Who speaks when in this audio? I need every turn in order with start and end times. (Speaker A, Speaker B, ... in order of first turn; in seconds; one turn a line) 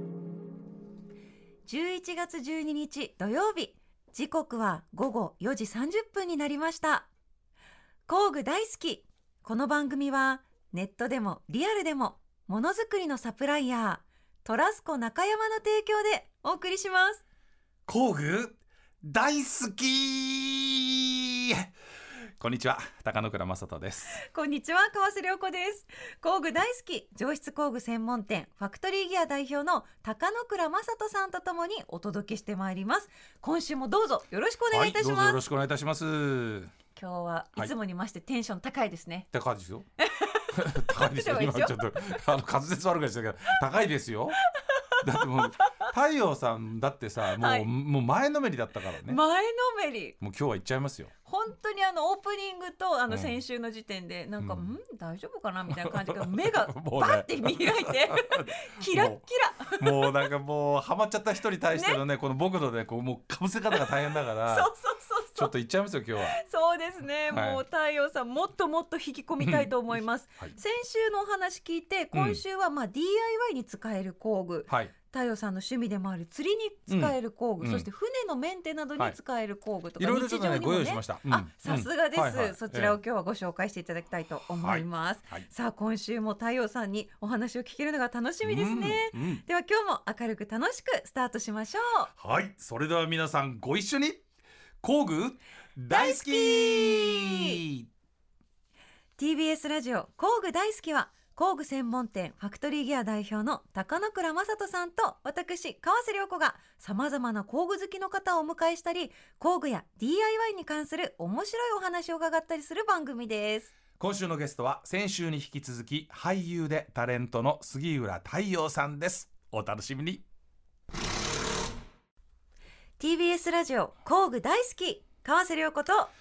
Speaker A: 1.6-7.1
Speaker A: 8.1-17.2
Speaker B: 17.9-21.7
Speaker B: 22.4-24.2
Speaker A: 24.2-35.4
Speaker B: 34.7-36.7
Speaker A: 37.0-39.3
Speaker B: 39.3-39.9
Speaker A: 40.0-41.8
Speaker B: 40.5-44.4
Speaker A: 44.6-45.9
Speaker B: 45.0-49.2
Speaker A: 47.3-47.7
Speaker A: 49.0-50.1
Speaker B: 50.2-51.1
Speaker A: 51.2-60.1
Speaker B: 53.1-53.4
Speaker B: 54.4-54.7
Speaker B: 55.7-59.2
Speaker B: 59.7-64.7
Speaker A: 61.7-62.0
Speaker A: 64.5-65.5
Speaker B: 65.3-66.4
Speaker A: 66.2-92.1
Speaker B: 67.3-67.6
Speaker B: 69.4-70.6
Speaker B: 72.1-72.4
Speaker B: 76.9-77.9
Speaker B: 80.0-83.0
Speaker B: 84.6-85.5
Speaker B: 88.4-89.4
Speaker B: 92.2-94.2
Speaker B: 94.8-97.9
Speaker A: 95.9-97.6
Speaker A: 99.2-113.7
Speaker B: 114.0-120.2
Speaker A: 123.0-126.1